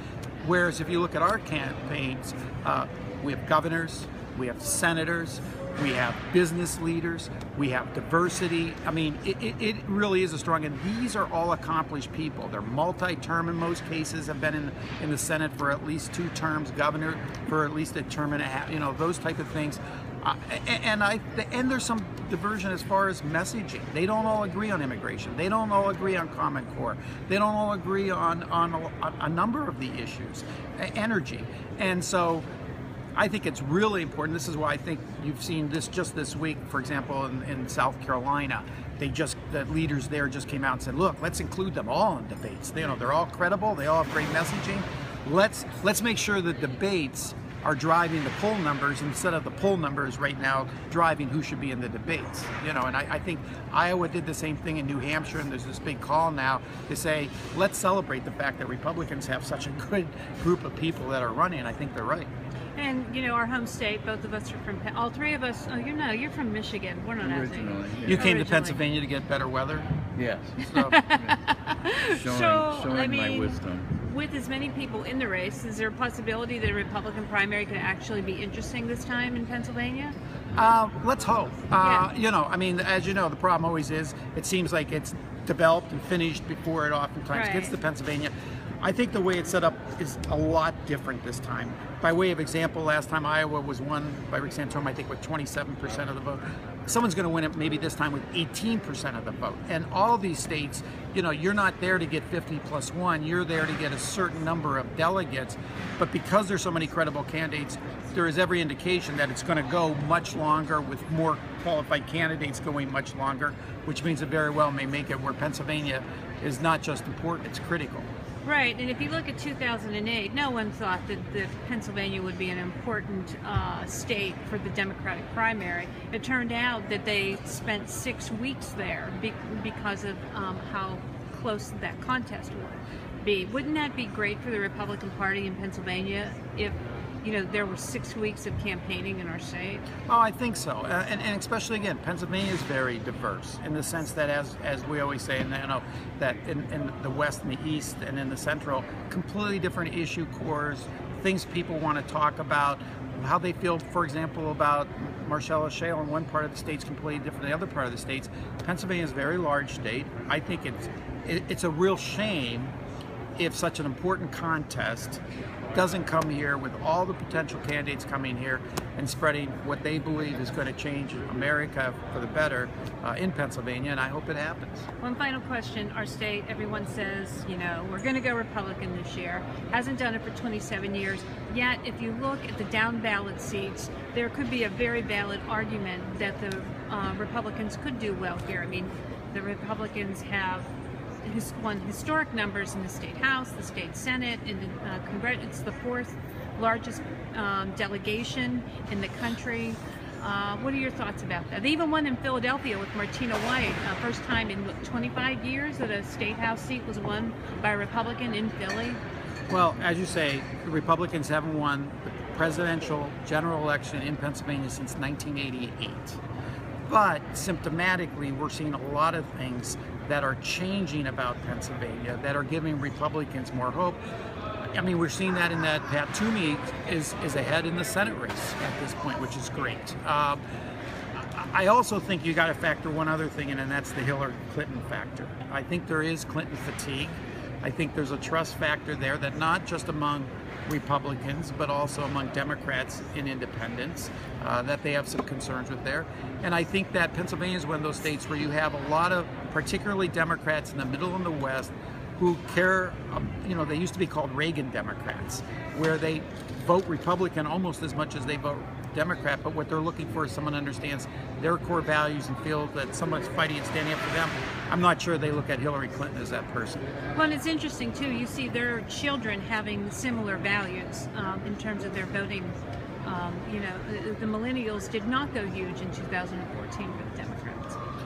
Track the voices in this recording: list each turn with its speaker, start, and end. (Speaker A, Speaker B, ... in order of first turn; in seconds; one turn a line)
Speaker A: 0.4-32.5
Speaker A: 33.2-62.3
Speaker B: 62.8-68.8
Speaker C: 67.2-68.3
Speaker A: 68.0-69.9
Speaker C: 70.2-71.4
Speaker A: 70.6-71.0
Speaker B: 70.7-80.2
Speaker C: 72.0-73.9
Speaker A: 80.5-118.1
Speaker B: 81.8-82.1
Speaker B: 87.3-87.8
Speaker B: 118.5-139.8
Speaker A: 140.1-162.7
Speaker A: 163.4-165.2
Speaker A: 165.7-174.9
Speaker B: 175.0-190.7
Speaker B: 191.2-209.0
Speaker A: 209.5-216.2
Speaker A: 216.9-224.0
Speaker A: 224.7-230.4
Speaker A: 231.3-266.9
Speaker B: 267.2-277.8